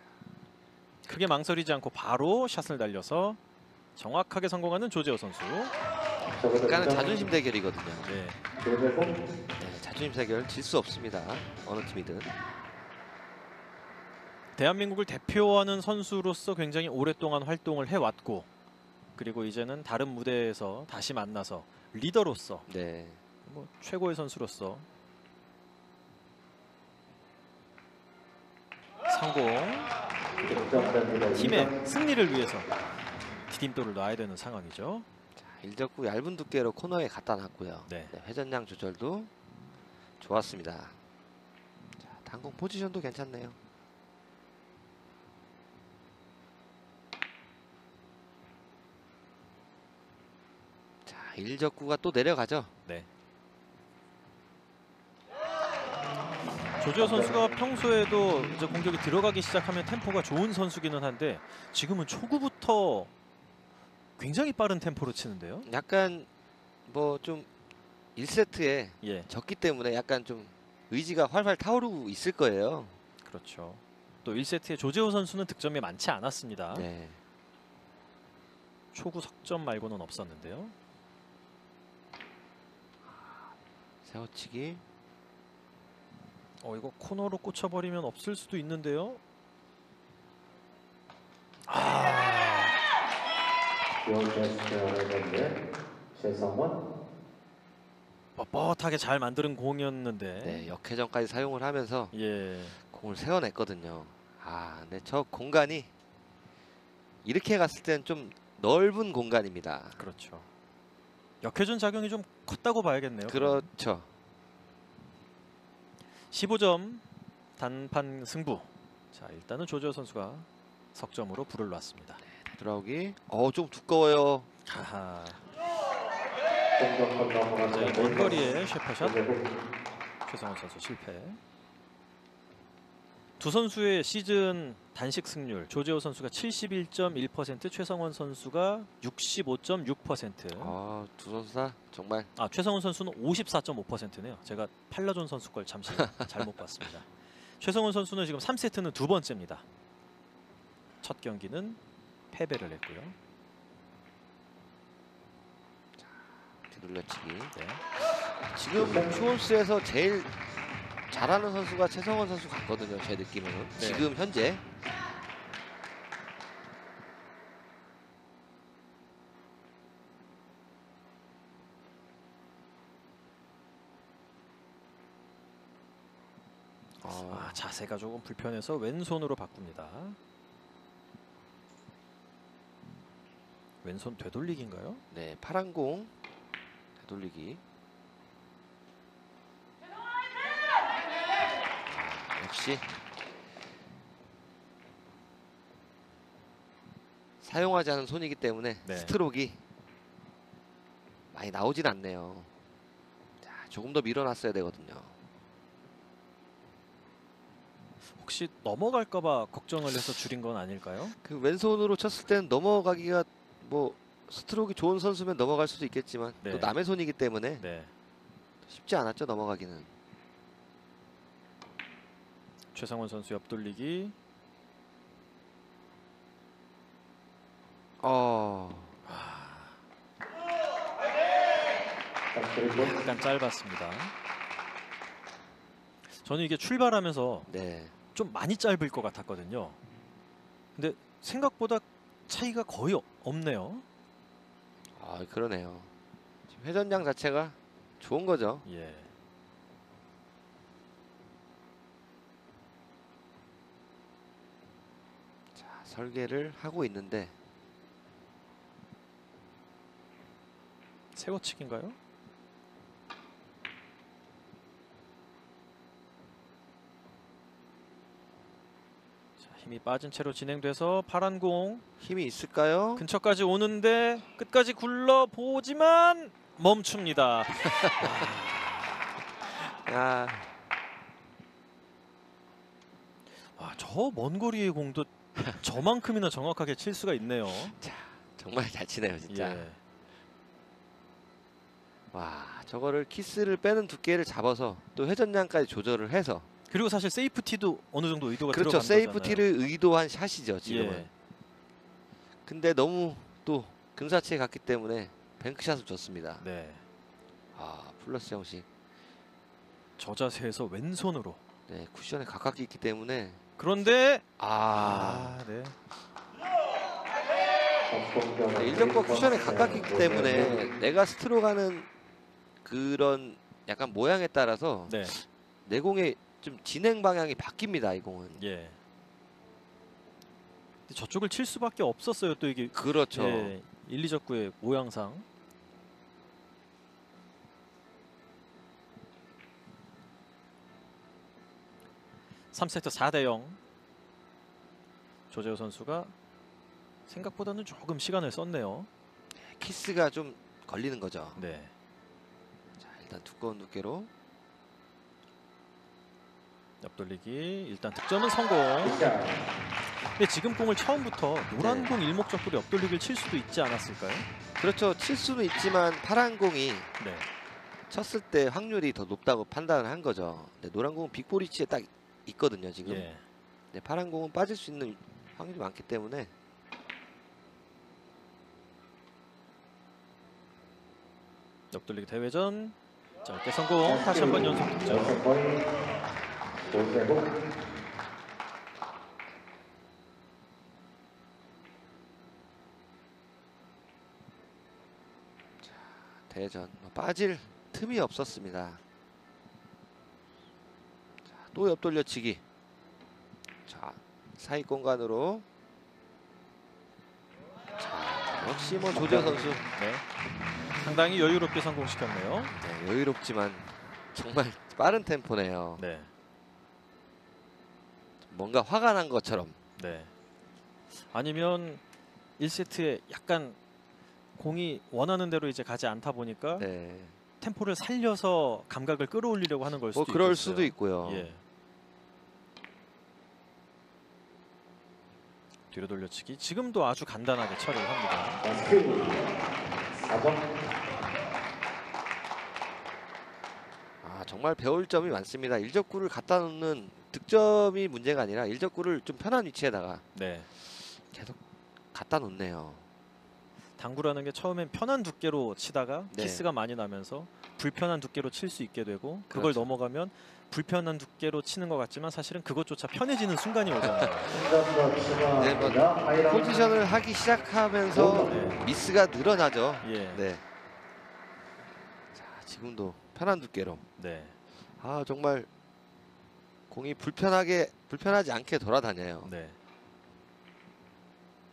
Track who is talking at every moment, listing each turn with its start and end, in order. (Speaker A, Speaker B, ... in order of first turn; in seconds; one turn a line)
Speaker A: 1.1-3.4
Speaker A: 4.0-5.8
Speaker B: 6.4-7.3
Speaker C: 6.6-8.1
Speaker A: 8.0-8.4
Speaker B: 8.6-9.2
Speaker C: 9.6-12.3
Speaker A: 14.6-18.5
Speaker A: 19.2-22.7
Speaker C: 22.7-23.2
Speaker A: 23.5-24.9
Speaker A: 29.1-29.9
Speaker B: 30.4-31.8
Speaker A: 30.6-32.7
Speaker A: 33.5-35.1
Speaker C: 35.4-39.3
Speaker A: 37.9-38.1
Speaker C: 40.2-41.0
Speaker C: 42.0-43.6
Speaker C: 51.0-52.7
Speaker A: 56.8-63.1
Speaker B: 57.0-57.3
Speaker A: 64.2-65.7
Speaker C: 65.7-66.3
Speaker C: 66.9-67.5
Speaker C: 68.2-73.0
Speaker A: 69.0-69.3
Speaker A: 73.2-76.9
Speaker C: 76.7-77.2
Speaker A: 78.9-80.7
Speaker C: 83.1-83.5
Speaker C: 84.0-84.8
Speaker A: 86.6-89.2
Speaker A: 91.7-92.8
Speaker B: 94.0-95.6
Speaker B: 96.1-96.8
Speaker A: 98.4-100.7
Speaker C: 100.4-102.1
Speaker A: 102.1-102.8
Speaker C: 102.8-105.9
Speaker C: 107.2-110.0
Speaker A: 110.0-110.5
Speaker A: 111.4-113.7
Speaker C: 113.3-114.1
Speaker A: 116.3-117.0
Speaker A: 117.6-122.2
Speaker C: 122.4-124.5
Speaker A: 124.7-125.4
Speaker B: 126.8-129.4
Speaker A: 127.6-129.2
Speaker A: 130.3-131.4
Speaker A: 133.4-140.8
Speaker C: 140.6-142.3
Speaker A: 142.4-149.7
Speaker C: 146.1-146.5
Speaker A: 151.0-151.8
Speaker A: 152.3-153.2
Speaker C: 156.7-160.3
Speaker A: 157.5-157.8
Speaker B: 158.7-159.1
Speaker C: 161.1-164.6
Speaker A: 163.8-164.1
Speaker C: 177.0-177.6
Speaker A: 177.2-180.2
Speaker A: 183.8-185.0
Speaker C: 185.1-186.1
Speaker C: 187.0-187.6
Speaker C: 191.9-192.9
Speaker C: 197.4-199.6
Speaker A: 198.8-199.2
Speaker C: 201.3-202.5
Speaker C: 203.4-205.1
Speaker A: 208.2-211.2
Speaker C: 209.8-210.3
Speaker C: 211.2-217.7
Speaker A: 216.4-216.8
Speaker A: 217.6-217.9
Speaker C: 218.6-219.9
Speaker A: 222.7-224.2
Speaker C: 228.0-229.0
Speaker A: 229.1-229.8
Speaker B: 232.3-233.0
Speaker A: 232.7-234.1
Speaker A: 236.1-237.5
Speaker C: 237.5-237.9
Speaker A: 238.1-239.8
Speaker A: 240.8-243.8
Speaker C: 244.9-245.9
Speaker C: 246.5-248.7
Speaker A: 248.7-249.1
Speaker C: 255.6-257.4
Speaker A: 261.1-262.0
Speaker A: 269.4-271.8
Speaker C: 272.0-273.1
Speaker A: 273.0-278.9
Speaker C: 277.6-278.3
Speaker C: 279.6-280.5
Speaker A: 283.6-287.8
Speaker C: 287.6-289.7
Speaker A: 289.3-289.8
Speaker C: 292.1-296.5
Speaker A: 296.7-299.4
Speaker C: 298.5-301.1
Speaker A: 300.6-301.1
Speaker C: 302.5-306.4
Speaker A: 306.4-306.8
Speaker C: 307.6-308.7
Speaker A: 310.0-311.4
Speaker C: 311.7-313.4
Speaker A: 313.6-315.8
Speaker C: 314.4-315.4
Speaker B: 317.9-320.7
Speaker C: 318.5-321.9
Speaker A: 319.5-319.8
Speaker C: 322.6-328.4
Speaker A: 324.9-325.1
Speaker A: 328.4-328.8
Speaker A: 330.9-335.3
Speaker C: 332.7-333.5
Speaker A: 342.5-343.6
Speaker A: 345.3-346.1
Speaker A: 347.1-348.9
Speaker C: 349.4-351.4
Speaker A: 351.4-351.7
Speaker C: 352.8-354.1
Speaker A: 356.8-359.1
Speaker B: 358.8-359.5
Speaker A: 360.0-364.3
Speaker C: 361.6-362.0
Speaker C: 364.6-366.9
Speaker A: 367.0-367.3
Speaker C: 367.9-373.1
Speaker A: 372.8-373.2
Speaker C: 373.7-376.3
Speaker A: 381.7-385.2
Speaker B: 383.8-385.7
Speaker B: 386.6-387.4
Speaker C: 395.6-398.8
Speaker C: 401.3-402.4
Speaker C: 403.7-405.5
Speaker C: 407.8-409.6
Speaker A: 409.6-410.0
Speaker A: 410.8-412.5
Speaker C: 412.5-415.9
Speaker A: 415.8-416.1
Speaker C: 418.3-419.6
Speaker A: 419.8-420.1
Speaker A: 421.0-421.8
Speaker A: 422.4-423.6
Speaker A: 424.4-426.7
Speaker C: 426.6-427.2
Speaker A: 427.4-431.4
Speaker C: 429.9-431.3
Speaker A: 435.7-438.4
Speaker B: 438.4-439.2
Speaker B: 440.1-440.5
Speaker C: 444.0-450.1
Speaker A: 450.1-450.5
Speaker C: 450.6-451.4
Speaker C: 451.9-452.8
Speaker A: 453.8-464.4
Speaker C: 456.1-456.4
Speaker C: 459.3-459.7
Speaker C: 463.8-464.1
Speaker B: 464.3-466.7
Speaker C: 465.4-470.4
Speaker B: 467.9-468.4
Speaker A: 468.2-468.6
Speaker A: 469.8-470.2
Speaker C: 472.1-473.8
Speaker A: 474.0-474.4
Speaker C: 474.7-475.5
Speaker C: 476.7-479.3
Speaker A: 479.2-479.6